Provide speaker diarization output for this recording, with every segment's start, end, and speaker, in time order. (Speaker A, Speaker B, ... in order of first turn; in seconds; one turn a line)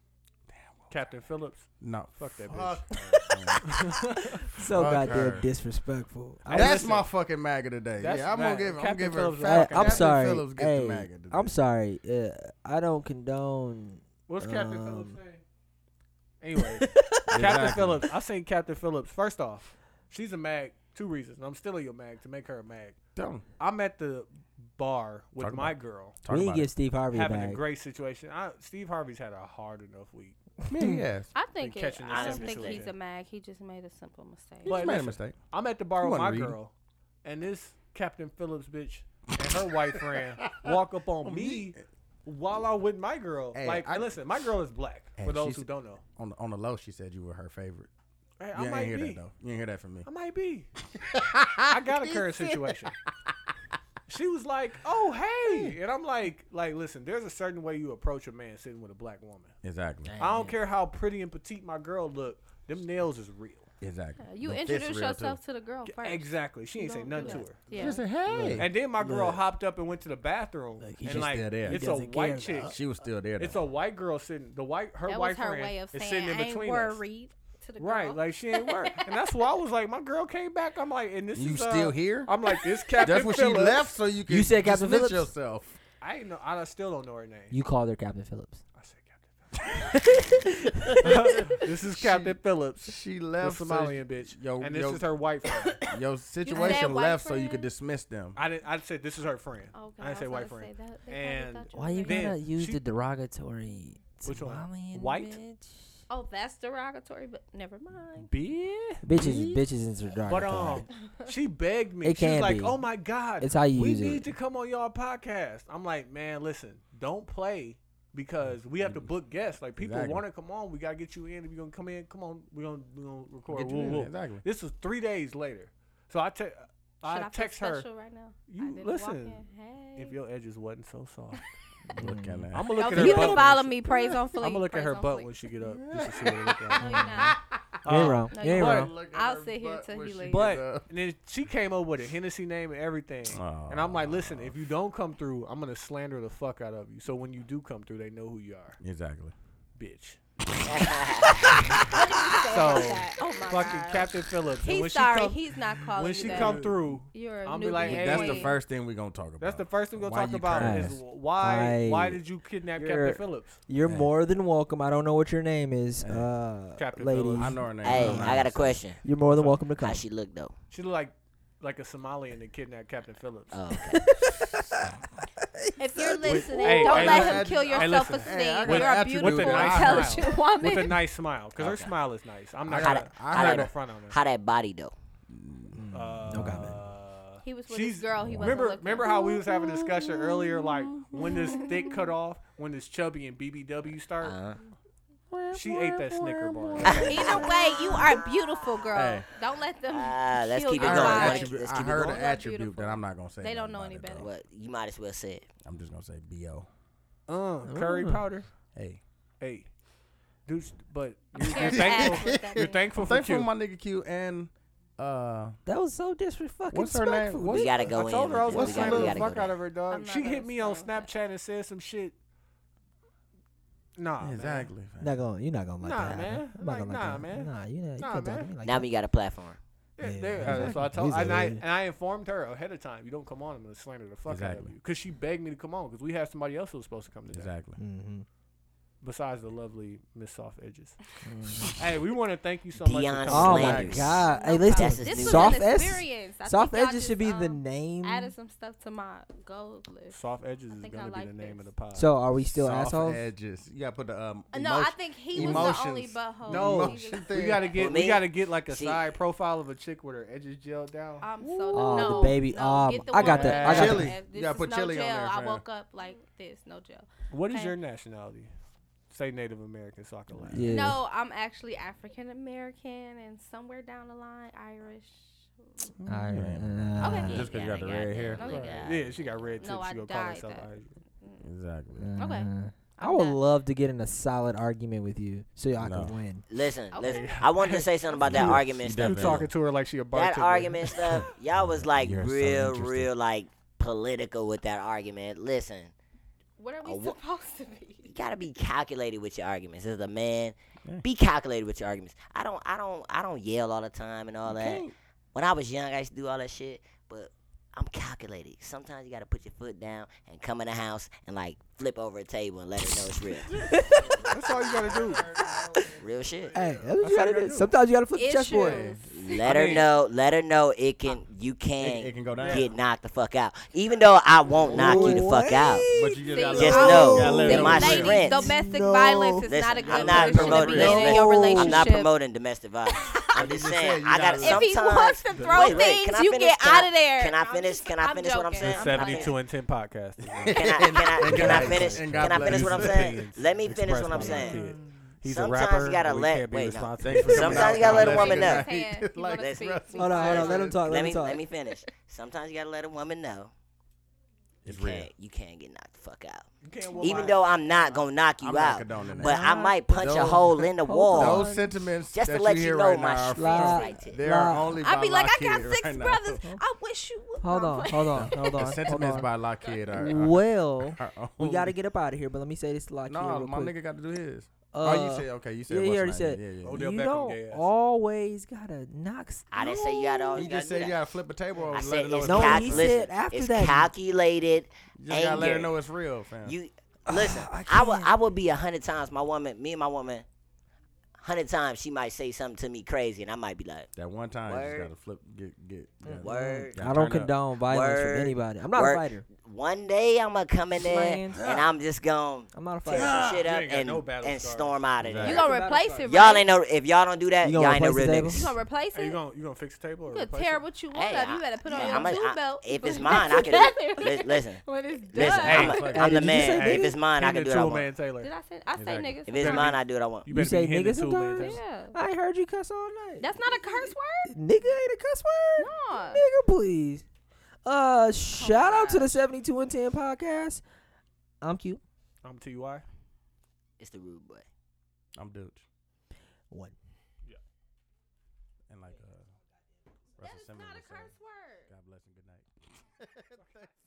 Speaker A: 0.5-0.8
Speaker B: 0.9-4.5
Speaker A: 1.8-4.0
Speaker C: 3.2-3.6
Speaker C: 4.4-6.9
Speaker A: 4.6-5.5
Speaker B: 6.5-7.1
Speaker A: 6.5-11.6
Speaker B: 8.0-10.2
Speaker C: 9.4-15.2
Speaker B: 14.3-15.4
Speaker B: 16.4-23.0
Speaker C: 16.6-17.8
Speaker A: 17.3-18.1
Speaker A: 23.2-23.4
Speaker B: 23.6-26.2
Speaker A: 25.4-26.7
Speaker C: 26.3-27.6
Speaker B: 27.1-30.4
Speaker A: 30.7-31.3
Speaker C: 30.8-31.0
Speaker D: 31.3-34.8
Speaker B: 31.6-32.9
Speaker E: 32.1-32.8
Speaker A: 34.6-35.4
Speaker B: 34.6-36.7
Speaker A: 36.0-36.6
Speaker B: 37.2-46.0
Speaker A: 39.9-41.8
Speaker A: 43.5-44.1
Speaker A: 45.2-47.9
Speaker B: 48.4-49.3
Speaker A: 48.5-50.1
Speaker B: 50.0-50.7
Speaker A: 51.0-52.9
Speaker B: 51.7-52.9
Speaker B: 54.1-59.6
Speaker A: 55.5-55.8
Speaker A: 59.6-60.1
Speaker E: 60.1-60.5
Speaker B: 60.2-63.7
Speaker A: 63.8-65.4
Speaker D: 64.2-68.0
Speaker B: 65.8-67.7
Speaker A: 67.7-68.7
Speaker C: 68.2-69.4
Speaker B: 68.5-72.8
Speaker C: 70.8-72.8
Speaker A: 71.0-71.9
Speaker A: 72.7-73.6
Speaker B: 73.4-77.0
Speaker D: 75.1-79.1
Speaker B: 77.8-83.9
Speaker A: 81.3-82.3
Speaker A: 83.0-85.8
Speaker C: 84.3-85.3
Speaker B: 86.0-87.6
Speaker C: 87.5-88.6
Speaker B: 88.8-89.5
Speaker C: 89.7-91.0
Speaker A: 90.8-95.1
Speaker B: 91.0-95.8
Speaker A: 95.8-98.4
Speaker D: 96.4-97.7
Speaker B: 96.5-96.8
Speaker B: 98.3-102.8
Speaker D: 99.7-102.4
Speaker C: 101.7-106.0
Speaker B: 104.2-105.4
Speaker D: 106.1-108.3
Speaker B: 108.2-109.6
Speaker C: 109.0-110.9
Speaker A: 109.2-109.5
Speaker B: 110.3-127.9
Speaker C: 112.0-112.8
Speaker C: 113.4-114.2
Speaker A: 118.8-119.1
Speaker A: 119.8-120.2
Speaker A: 123.5-124.5
Speaker D: 127.0-130.2
Speaker B: 128.5-129.4
Speaker B: 130.0-131.4
Speaker A: 131.9-133.2
Speaker C: 131.9-133.4
Speaker B: 132.5-137.0
Speaker D: 132.7-135.3
Speaker A: 135.6-140.9
Speaker D: 136.7-137.4
Speaker C: 136.8-137.3
Speaker B: 137.8-138.9
Speaker C: 137.9-138.9
Speaker D: 138.3-140.5
Speaker B: 140.2-148.8
Speaker A: 143.3-144.6
Speaker A: 148.8-149.3
Speaker B: 149.8-150.2
Speaker E: 150.6-151.7
Speaker B: 151.6-158.6
Speaker D: 151.9-158.6
Speaker A: 156.2-156.7
Speaker A: 157.8-161.0
Speaker B: 159.4-163.6
Speaker C: 160.6-162.2
Speaker C: 162.8-170.0
Speaker A: 163.8-164.1
Speaker A: 166.0-166.3
Speaker B: 166.8-168.4
Speaker A: 167.4-168.8
Speaker E: 167.8-169.0
Speaker B: 169.2-169.6
Speaker E: 169.8-170.5
Speaker B: 170.7-173.6
Speaker E: 173.5-174.1
Speaker C: 173.9-174.9
Speaker C: 175.7-176.6
Speaker D: 175.8-181.0
Speaker B: 176.2-184.2
Speaker A: 176.4-180.3
Speaker E: 181.6-182.0
Speaker A: 182.7-183.7
Speaker E: 182.8-184.9
Speaker A: 185.3-185.8
Speaker C: 185.7-186.8
Speaker B: 185.9-194.4
Speaker A: 186.3-186.8
Speaker D: 187.4-189.5
Speaker A: 188.2-192.0
Speaker E: 194.2-194.6
Speaker A: 195.3-198.2
Speaker B: 195.5-197.5
Speaker E: 196.8-198.8
Speaker D: 197.1-204.3
Speaker A: 198.9-199.3
Speaker E: 199.9-202.3
Speaker A: 200.8-204.3
Speaker E: 204.2-205.5
Speaker A: 205.6-206.7
Speaker B: 207.3-208.5
Speaker C: 207.7-208.2
Speaker A: 208.8-209.0
Speaker B: 209.4-209.7
Speaker B: 210.5-213.5
Speaker A: 211.4-215.6
Speaker D: 211.4-212.9
Speaker C: 215.7-218.0
Speaker A: 216.7-218.0
Speaker E: 217.5-219.6
Speaker B: 217.9-222.2
Speaker A: 218.5-219.3
Speaker D: 219.9-221.1
Speaker B: 224.0-224.7
Speaker A: 224.2-225.2
Speaker C: 225.0-228.9
Speaker B: 225.8-228.5
Speaker E: 228.6-229.6
Speaker B: 230.0-237.5
Speaker C: 230.0-231.6
Speaker A: 230.4-231.6
Speaker A: 234.3-234.7
Speaker A: 237.3-237.8
Speaker C: 237.8-238.3
Speaker B: 239.0-241.0
Speaker C: 241.2-241.8
Speaker B: 241.7-244.1
Speaker E: 242.8-245.7
Speaker C: 243.3-248.3
Speaker A: 243.4-244.2
Speaker D: 244.2-250.2
Speaker B: 250.1-252.1
Speaker D: 250.7-251.7
Speaker C: 251.9-253.3
Speaker A: 252.5-257.7
Speaker D: 254.5-257.5
Speaker B: 255.4-255.8
Speaker B: 256.4-262.4
Speaker E: 257.7-259.1
Speaker D: 261.2-267.8
Speaker A: 261.7-262.3
Speaker C: 261.7-264.1
Speaker B: 263.2-264.1
Speaker A: 263.2-265.6
Speaker B: 267.3-268.5
Speaker B: 269.1-270.8
Speaker A: 270.3-270.8
Speaker C: 270.5-271.0
Speaker D: 270.7-275.9
Speaker A: 276.0-278.4
Speaker C: 276.1-277.5
Speaker D: 277.0-277.4
Speaker E: 277.2-279.3
Speaker D: 278.1-278.9
Speaker B: 278.4-281.0
Speaker D: 279.6-281.5
Speaker A: 281.4-282.1
Speaker C: 282.0-286.4
Speaker D: 282.2-283.4
Speaker A: 285.8-286.2
Speaker E: 286.5-289.5
Speaker D: 286.9-287.4
Speaker B: 287.0-291.2
Speaker A: 288.2-289.5
Speaker E: 290.1-295.9
Speaker A: 291.1-293.1
Speaker D: 296.6-298.1
Speaker E: 296.8-297.2
Speaker E: 298.1-313.6
Speaker A: 304.5-304.9
Speaker C: 313.6-314.3
Speaker A: 314.1-314.8
Speaker B: 314.2-315.2
Speaker E: 316.0-316.6
Speaker C: 316.5-318.9
Speaker B: 317.0-317.7
Speaker D: 318.1-319.5
Speaker A: 318.6-319.0
Speaker E: 319.0-325.9
Speaker B: 319.3-319.9
Speaker A: 321.8-322.7
Speaker B: 322.3-322.7
Speaker C: 324.6-329.5
Speaker A: 324.7-325.2
Speaker A: 325.8-328.3
Speaker D: 326.2-332.1
Speaker E: 326.5-328.5
Speaker E: 329.5-339.4
Speaker A: 329.8-331.7
Speaker C: 330.1-331.9
Speaker A: 333.4-334.6
Speaker D: 334.4-339.4
Speaker B: 335.3-335.9
Speaker B: 338.6-348.3
Speaker A: 340.3-343.3
Speaker E: 340.5-344.7
Speaker C: 344.2-344.5
Speaker A: 344.2-345.1
Speaker E: 345.2-348.7
Speaker A: 347.0-350.9
Speaker D: 347.8-350.8
Speaker E: 349.3-353.5
Speaker C: 349.9-351.4
Speaker A: 354.6-355.1
Speaker E: 354.7-356.5
Speaker B: 356.6-358.1
Speaker D: 356.9-357.4
Speaker E: 357.0-361.5
Speaker A: 358.4-366.4
Speaker C: 359.0-361.6
Speaker E: 362.1-364.2
Speaker C: 363.3-364.8
Speaker D: 363.6-363.9
Speaker D: 364.8-368.7
Speaker C: 367.4-369.3
Speaker A: 368.1-371.8
Speaker C: 369.9-373.8
Speaker A: 373.1-376.8
Speaker C: 374.7-380.5
Speaker B: 376.6-377.7
Speaker E: 379.5-381.0
Speaker A: 380.4-382.9
Speaker B: 381.6-381.8
Speaker E: 381.7-385.8
Speaker C: 382.2-383.9
Speaker A: 385.0-386.6
Speaker E: 386.4-390.2
Speaker C: 387.1-388.1
Speaker E: 391.2-393.9
Speaker A: 394.0-397.3
Speaker E: 394.5-394.9
Speaker C: 396.1-399.3
Speaker E: 396.2-396.8
Speaker E: 397.6-405.5
Speaker C: 400.7-401.5
Speaker A: 401.4-401.7
Speaker C: 402.5-403.2
Speaker A: 402.9-403.4
Speaker B: 402.9-404.8
Speaker A: 405.0-405.5
Speaker D: 405.2-406.5
Speaker C: 405.2-406.0
Speaker B: 405.5-406.0
Speaker E: 406.1-408.5
Speaker C: 407.4-408.5
Speaker D: 408.3-409.2
Speaker B: 408.9-410.6
Speaker D: 410.1-416.0
Speaker E: 410.9-417.9
Speaker B: 411.8-412.1
Speaker B: 415.2-418.3
Speaker A: 415.2-416.2
Speaker C: 415.8-417.0
Speaker D: 418.2-419.7
Speaker A: 418.8-419.2
Speaker E: 419.3-420.3
Speaker B: 419.4-421.6
Speaker C: 420.3-427.0
Speaker D: 421.4-422.0
Speaker D: 423.2-424.3
Speaker D: 425.6-426.2
Speaker C: 427.6-430.6
Speaker D: 428.3-429.2
Speaker C: 431.4-431.8
Speaker B: 432.2-432.9
Speaker E: 433.8-434.5
Speaker A: 435.1-435.6
Speaker C: 436.5-436.8
Speaker A: 438.7-439.3
Speaker A: 440.2-441.1
Speaker D: 440.2-441.7
Speaker A: 441.7-443.5
Speaker B: 443.4-443.7